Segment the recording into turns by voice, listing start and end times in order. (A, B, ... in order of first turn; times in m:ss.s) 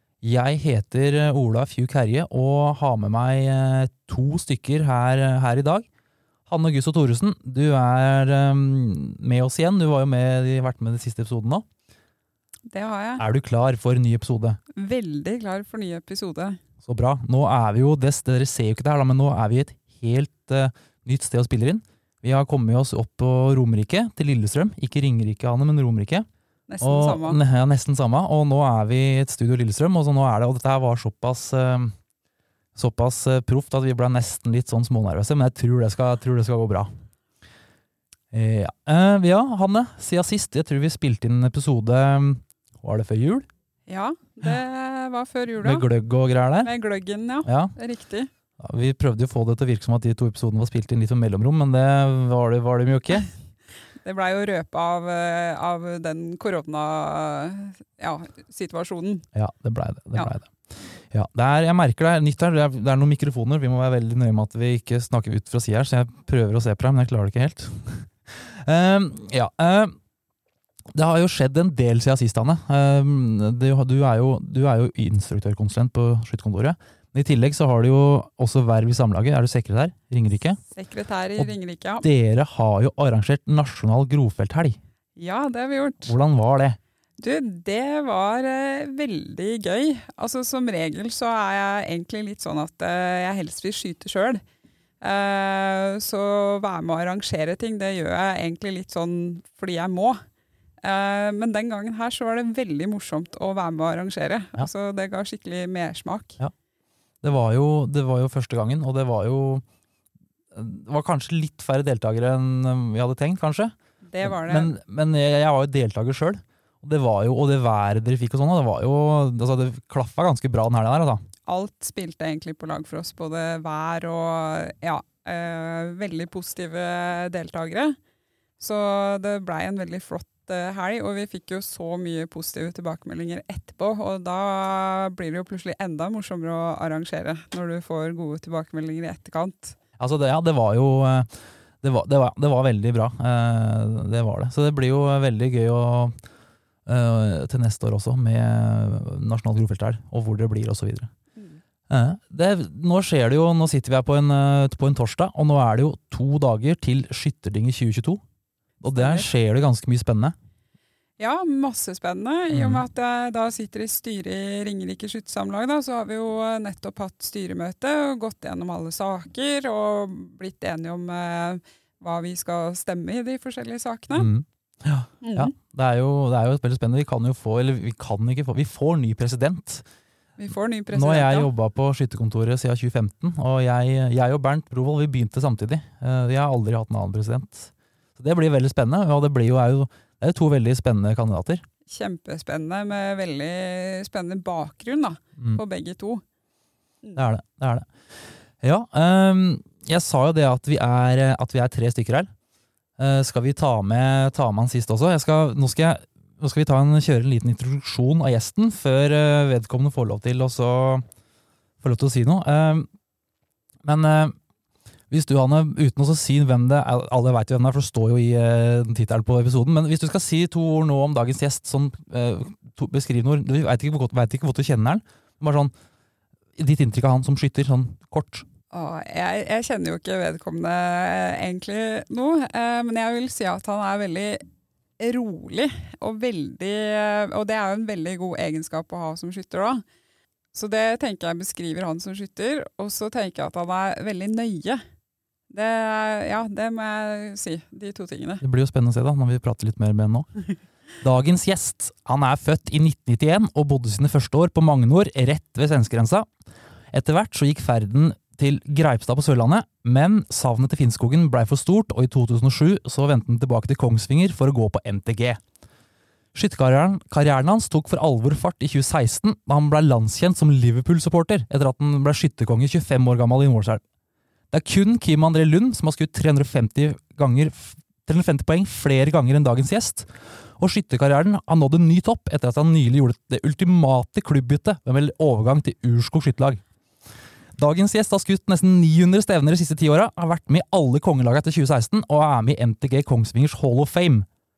0:00.2-0:05.9 A
0:06.5-0:11.6 A
0:12.7-0:13.2 B
0:13.2-0:14.6 A
0:14.7-0:16.6 B
0:16.8-0:26.3 A
0:26.7-0:27.4 B
0:26.8-0:32.0 A
0:32.8-0:36.9 A
0:38.3-0:43.5 A
0:43.9-0:45.9 B
0:45.6-0:46.7 A
0:46.6-0:48.3 B
0:47.4-0:47.8 A
0:48.6-0:53.3 A
0:54.0-0:59.3 B
0:59.4-1:10.0 A
1:10.9-1:20.6 A
1:20.8-1:22.1 B
1:21.4-1:24.8 A
1:25.2-1:26.2 B
1:26.1-1:26.8 A
1:27.2-1:34.4 B
1:35.0-1:40.2 B
1:40.8-1:46.4 B
1:47.2-1:49.6 A
1:50.5-2:01.2 A
1:54.0-1:54.7 B
2:01.5-2:08.0 B
2:08.6-2:19.8 B
2:20.0-2:26.2 A
2:26.9-2:31.1 A
2:31.9-2:38.2 A
2:38.8-2:40.4 A
2:39.0-2:39.3 B
2:41.2-2:54.3 B
2:42.5-2:42.8 A
2:54.1-2:59.8 A
2:55.2-2:55.5 B
3:00.4-3:01.5 B
3:00.9-3:11.6 A
3:11.9-3:16.2 B
3:17.2-3:22.3 A
3:23.0-3:31.1 A
3:31.8-3:32.9 A
3:33.8-3:34.4 A
3:35.1-3:45.7 A
3:46.6-3:48.5 A
3:48.7-3:54.4 B
3:55.0-3:59.8 B
4:00.5-4:04.8 B
4:05.5-4:08.4 B
4:08.4-4:10.3 A
4:11.0-4:16.3 A
4:16.9-4:25.4 A
4:26.3-4:33.8 A
4:34.5-4:46.6 A
4:47.6-4:54.3 A